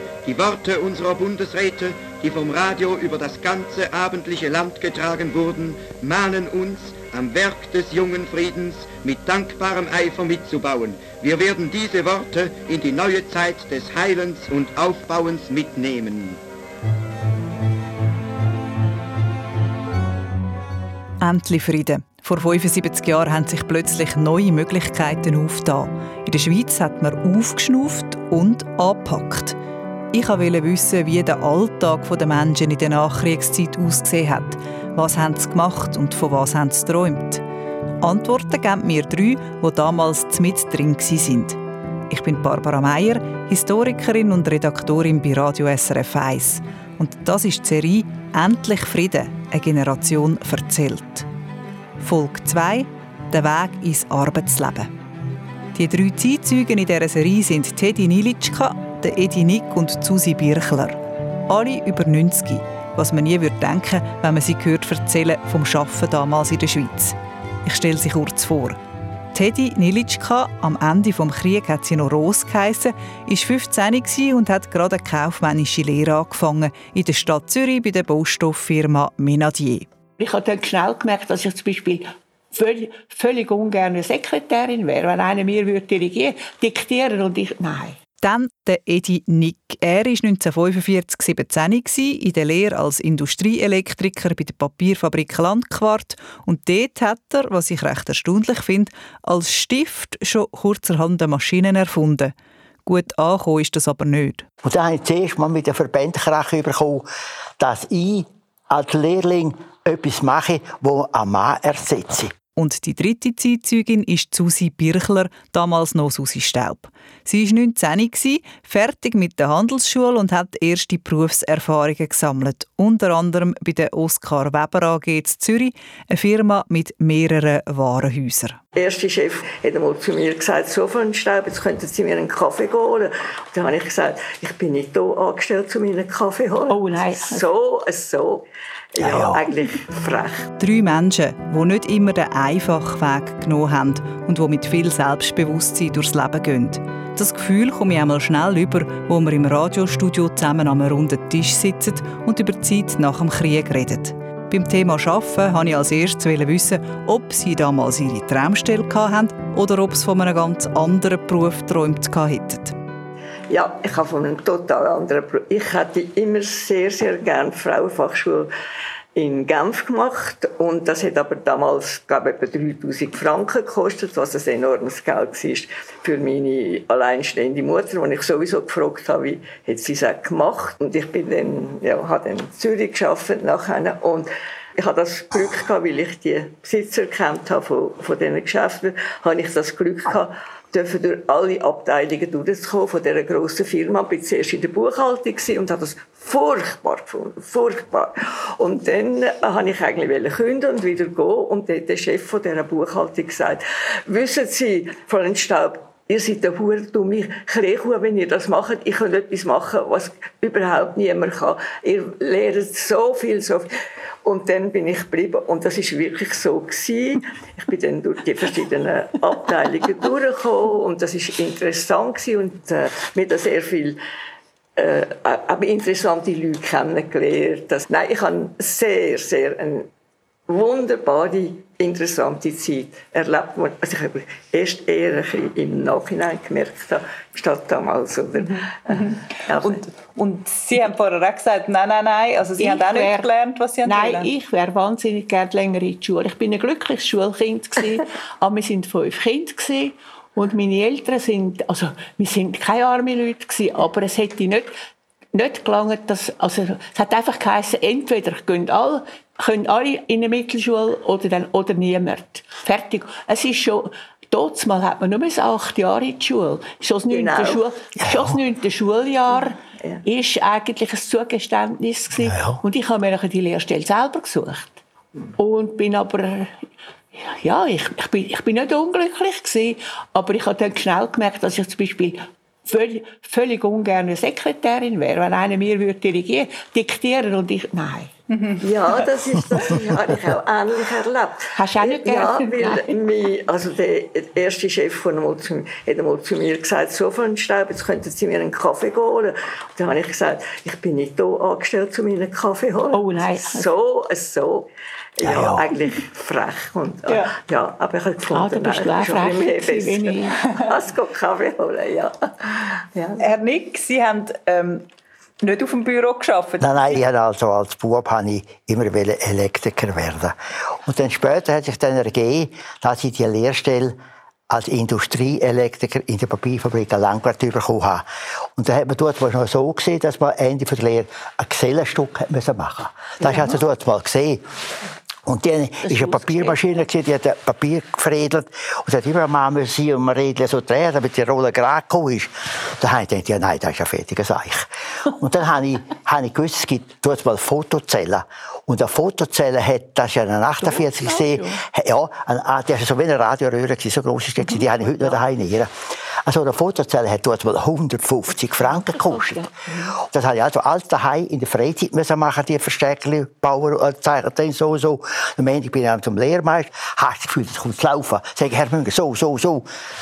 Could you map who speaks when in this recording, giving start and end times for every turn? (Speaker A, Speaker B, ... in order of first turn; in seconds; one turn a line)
Speaker A: 0.3-5.5
Speaker A: 6.1-6.9
Speaker A: 10.3-10.8
Speaker A: 12.7-13.4
Speaker B: 21.2-29.6
Speaker B: 30.1-37.4
Speaker B: 38.0-51.3
Speaker B: 52.0-54.9
Speaker B: 55.7-68.8
Speaker B: 69.3-79.9
Speaker C: 80.2-88.0
Speaker B: 88.2-102.3
Speaker B: 102.9-104.5
Speaker D: 104.6-107.1
Speaker D: 107.6-112.3
Speaker B: 112.6-128.6
Speaker E: 128.8-140.5
Speaker C: 136.7-137.5
Speaker D: 139.0-139.4
Speaker B: 140.6-162.8
Speaker E: 163.5-168.5
Speaker E: 169.2-213.7
Speaker E: 214.2-224.0
Speaker E: 224.8-229.9
Speaker E: 230.5-239.8
Speaker B: 238.9-244.3
Speaker C: 242.6-243.3
Speaker C: 243.8-254.7
Speaker C: 255.3-274.8
Speaker E: 267.1-267.6
Speaker D: 268.0-268.4
Speaker E: 269.3-270.0
Speaker D: 272.2-272.6
Speaker C: 275.4-276.5
Speaker C: 277.1-288.1
Speaker B: 288.3-288.6
Speaker E: 288.6-313.2
Speaker C: 291.6-292.9
Speaker C: 302.9-303.7
Speaker D: 305.2-305.6
Speaker C: 308.3-310.4
Speaker B: 313.2-314.8
Speaker B: 315.4-316.8
Speaker D: 316.6-323.9
Speaker D: 324.5-328.1
Speaker D: 328.6-334.4
Speaker C: 333.3-333.6
Speaker D: 335.3-355.7
Speaker C: 335.8-336.8
Speaker C: 350.6-351.6
Speaker C: 354.5-355.2
Speaker D: 356.2-359.4
Speaker C: 358.6-359.9
Speaker D: 360.0-369.7